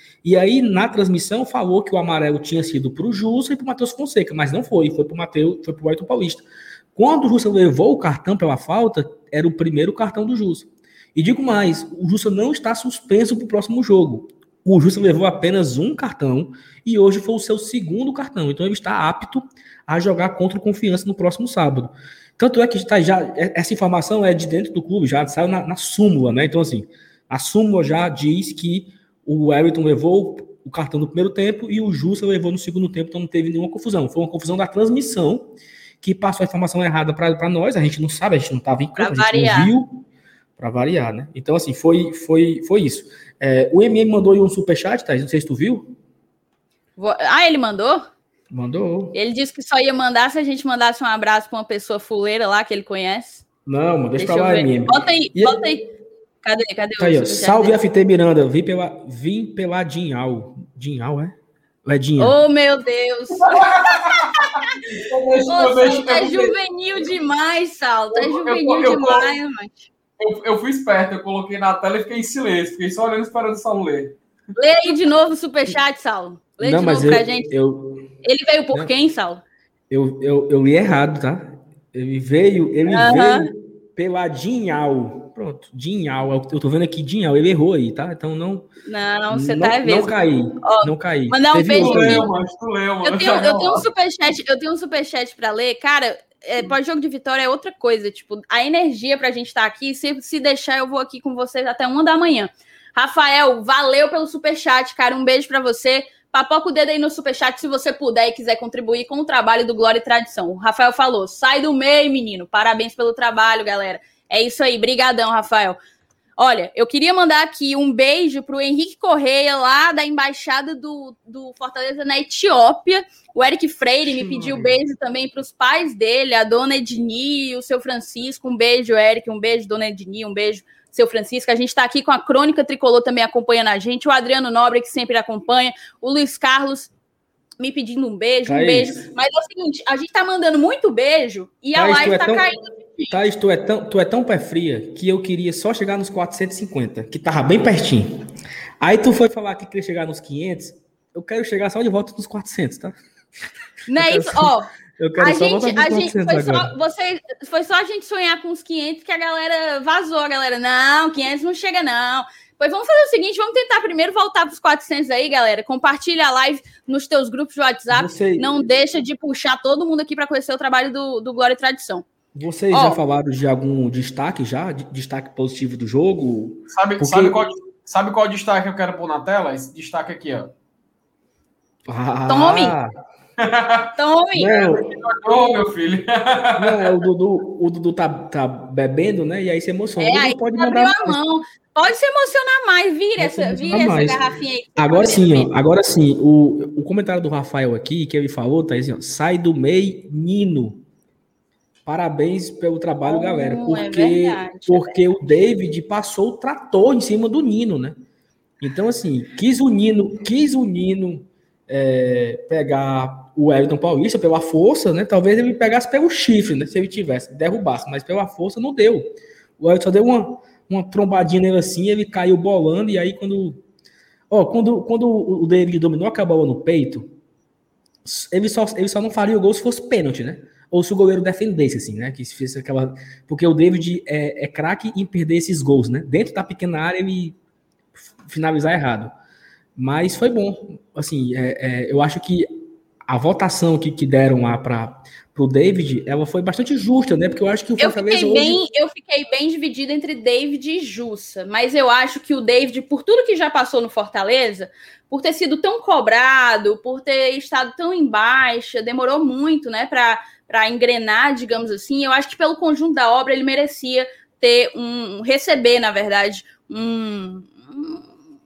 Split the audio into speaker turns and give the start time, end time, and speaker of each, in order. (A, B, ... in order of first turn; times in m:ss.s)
0:00.2-0:06.4 A
0:07.0-0:35.5 A
0:36.0-0:40.0 A
0:39.0-0:39.7 B
0:40.6-0:45.9 A
0:47.0-0:48.0 B
0:48.5-0:49.2 A
0:49.1-0:53.4 B
0:53.6-0:55.6 A
0:54.2-0:55.9 B
0:56.4-0:57.8 B
0:57.0-1:02.4 A
1:02.2-1:04.8 B
1:03.4-1:06.6 C
1:05.5-1:09.9 B
1:08.1-1:09.3 C
1:10.2-1:14.2 C
1:14.5-1:17.5 B
1:16.6-1:18.1 A
1:18.2-1:19.4 B
1:19.9-1:28.7 A
1:22.9-1:23.5 B
1:28.8-1:32.3 B
1:29.3-1:32.3 A
1:31.7-1:33.8 C
1:33.0-1:55.8 B
1:56.4-2:16.9 B
2:17.6-2:23.2 B
2:18.4-2:19.1 A
2:21.7-2:22.5 A
2:23.1-2:28.1 A
2:28.8-2:32.9 A
2:33.9-2:52.0 B
2:34.0-2:36.7 A
2:47.9-2:48.6 A
2:52.3-2:57.4 A
2:52.7-2:53.0 B
2:56.7-3:00.5 C
3:01.9-3:02.9 A
3:02.3-3:02.8 B
3:03.4-3:03.9 C
3:04.0-3:04.5 B
3:04.3-3:04.9 A
3:04.5-3:06.9 C
3:06.6-3:11.2 A
3:10.0-3:15.5 B
3:13.2-3:14.2 A
3:14.8-3:20.8 A
3:21.8-3:28.0 A
3:23.0-3:25.0 B
3:28.6-3:39.1 A
3:39.6-3:43.6 A
3:44.3-3:47.1 A
3:48.0-3:57.4 A
3:58.2-3:59.1 A
3:59.8-4:02.5 A
4:03.0-4:08.6 A
4:07.8-4:28.1 B